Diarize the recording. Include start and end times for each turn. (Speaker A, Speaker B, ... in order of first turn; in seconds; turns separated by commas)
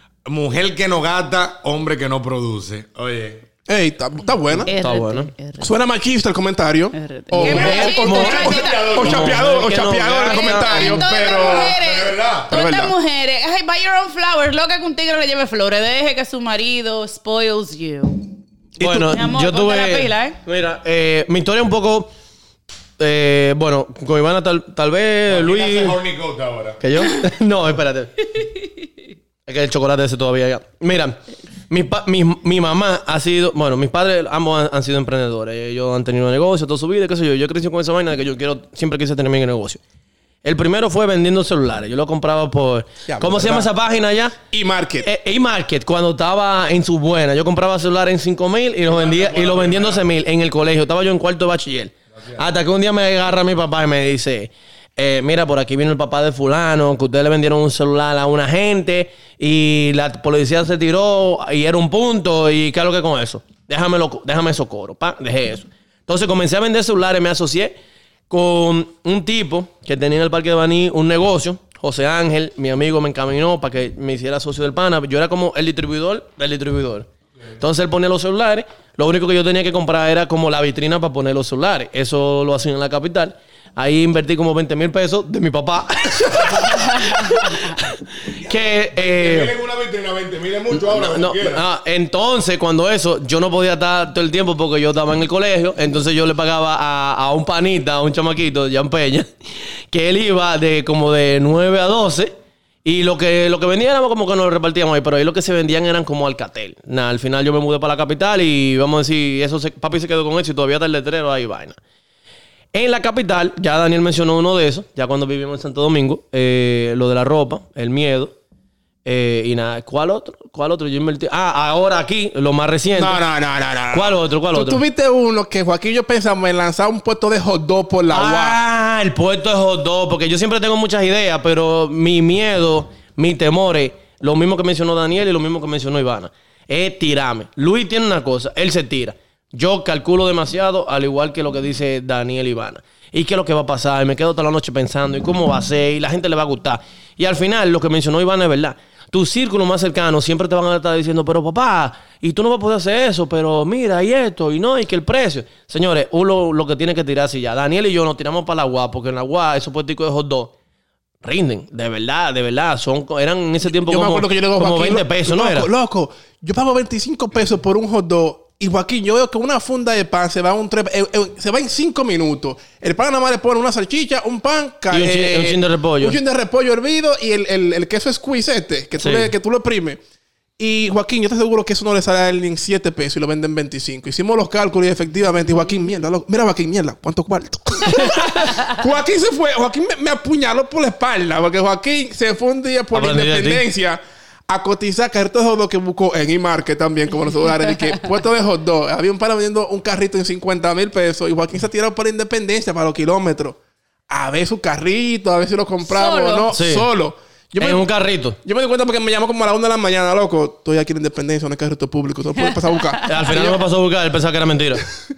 Speaker A: 0.3-3.4, Speaker B: 3.7-4.7, Speaker C: 4.6-5.7, Speaker D: 4.7-5.3, Speaker B: 5.6-11.7, Speaker C: 6.9-9.0, Speaker A: 7.4-9.6, Speaker D: 7.4-11.0, Speaker C: 10.3-18.2, Speaker A: 11.0-12.5, Speaker B: 12.5-12.9, Speaker D: 18.8-22.1, Speaker B: 18.8-19.1, Speaker C: 19.1-20.4, Speaker D: 23.0-26.0, Speaker A: 25.3-26.8, Speaker D: 26.8-28.5, Speaker D: 29.4-39.8, Speaker D: 40.4-44.4, Speaker B: 43.1-43.7, Speaker B: 44.5-45.1, Speaker D: 45.0-67.8, Speaker A: 48.9-50.0, Speaker D: 68.3-77.1, Speaker D: 77.6-89.5, Speaker C: 87.0-87.3, Speaker A: 88.4-91.6, Speaker D: 90.8-99.3, Speaker D: 99.9-102.3, Speaker D: 102.8-111.8, Speaker D: 112.7-118.3, Speaker D: 119.0-123.2, Speaker B: 123.0-128.6, Speaker D: 123.9-124.8, Speaker D: 128.1-160.5, Speaker D: 161.2-165.7, Speaker B: 163.6-180.0, Speaker D: 174.9-176.2, Speaker D: 179.0-179.3, Speaker B: 180.6-203.6, Speaker D: 188.0-188.3, Speaker D: 192.9-193.6, Speaker B: 204.1-207.8, Speaker C: 205.8-206.5, Speaker D: 206.5-206.9, Speaker D: 207.6-208.4, Speaker B: 208.4-213.6, Speaker C: 212.8-213.2, Speaker D: 213.0-214.8